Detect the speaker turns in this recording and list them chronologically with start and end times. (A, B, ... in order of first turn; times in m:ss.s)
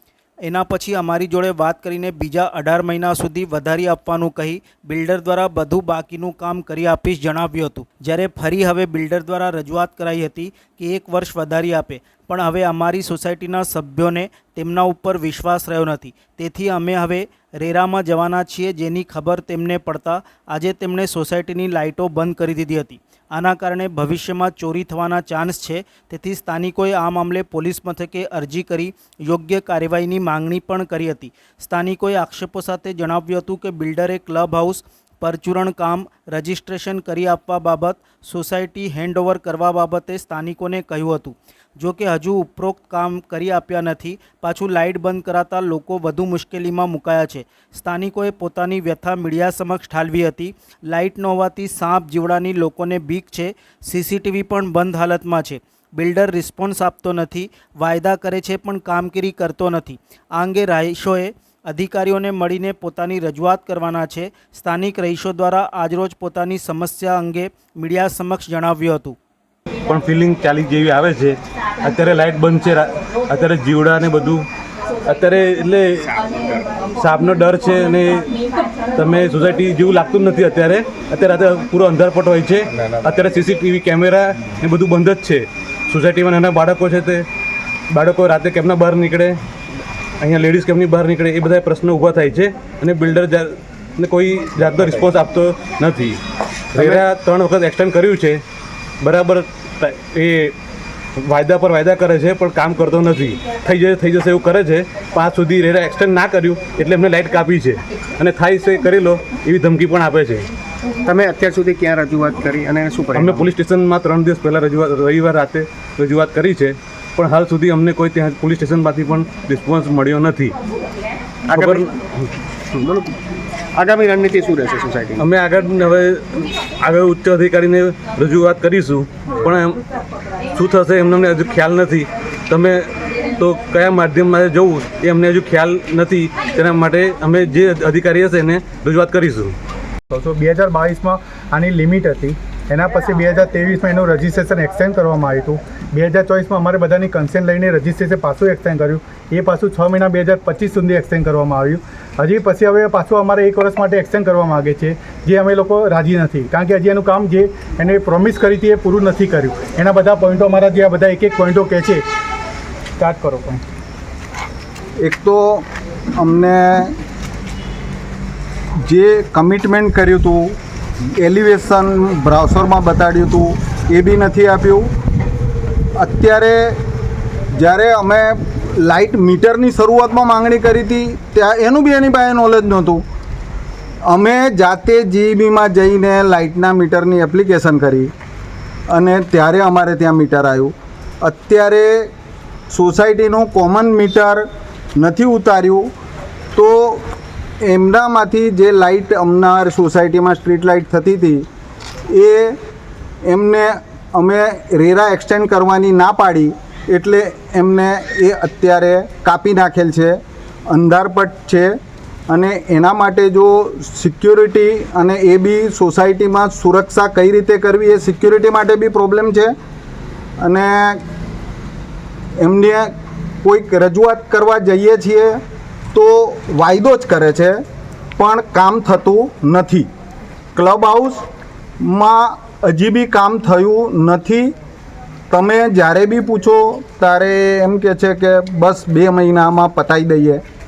0:00.4-1:09.2 A
1:09.9-1:14.5 B
1:15.1-1:16.2 B
1:17.0-1:18.3 B
1:19.0-1:27.3 B
1:27.9-1:29.4 B
1:30.2-1:36.2 B
1:36.7-1:38.4 B
1:39.0-1:40.6 B
1:41.2-1:50.5 B
1:51.0-1:53.5 C
1:53.2-2:00.6 B
2:01.5-2:01.9 C
2:01.5-2:01.9 B
2:02.7-2:03.2 C
2:03.8-2:05.2 C
2:05.2-2:09.8 B
2:10.5-2:19.6 B
2:20.1-2:42.0 D
2:43.0-2:43.6 D
2:45.0-2:46.9 E
2:48.8-2:50.6 E
2:51.2-2:54.9 E
2:56.0-2:56.8 E
2:57.6-3:03.0 E
3:04.1-3:08.1 E
3:08.9-3:12.1 E
3:12.7-3:14.5 E
3:15.0-3:15.9 E
3:16.6-3:17.1 E
3:17.6-3:21.4 E
3:22.1-3:22.6 E
3:23.2-3:30.2 E
3:30.7-3:31.8 E
3:32.3-3:39.5 E
3:40.4-3:41.0 E
3:42.4-3:42.9 E
3:43.4-3:45.4 E
3:45.9-3:47.6 E
3:48.2-3:49.9 E
3:50.6-3:51.2 E
3:51.8-3:54.5 E
3:55.3-4:00.4 E